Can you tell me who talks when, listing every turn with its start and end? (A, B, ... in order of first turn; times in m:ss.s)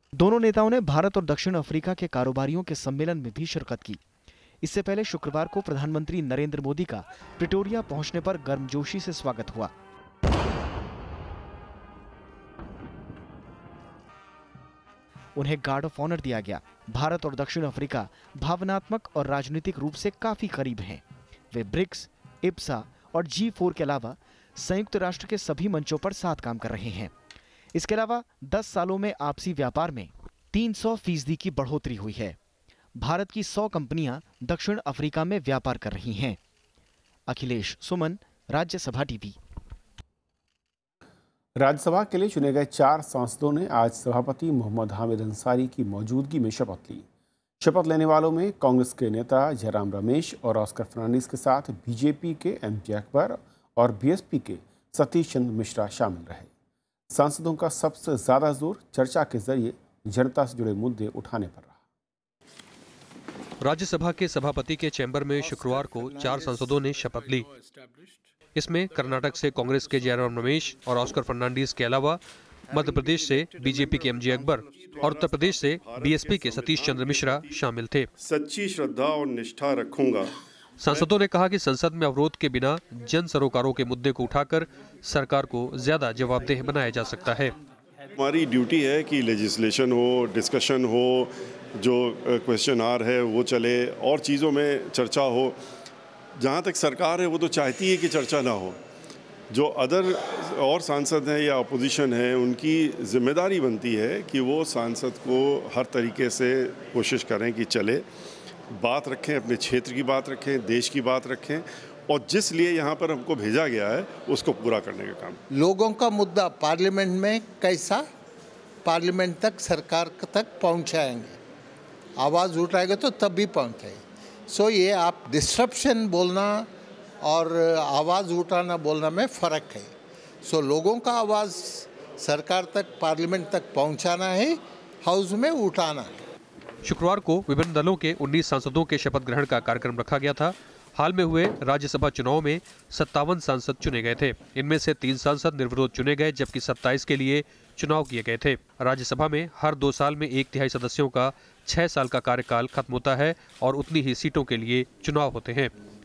0:00.1-0:04.0 A
0:04.6-0:09.7 A
0:15.4-0:27.1 A
0:27.7-0:32.4 A
0:33.0-0:36.4 A
0:37.3-0:39.4 A
0:41.6-0:47.0 B
0:47.6-0:56.5 B
0:57.1-1:01.8 B
1:03.6-1:07.5 C
1:08.5-1:18.1 C
1:14.5-1:17.5 D
1:18.2-1:20.3 D
1:20.8-1:27.5 C
1:28.2-1:35.6 D
1:36.4-1:38.8 D
1:39.5-1:48.0 D
1:48.7-1:55.4 D
1:55.6-1:58.0 E
1:58.8-2:01.4 E
2:02.2-2:06.7 E
2:07.2-2:09.9 E
2:10.4-2:16.2 E
2:16.8-2:35.7 C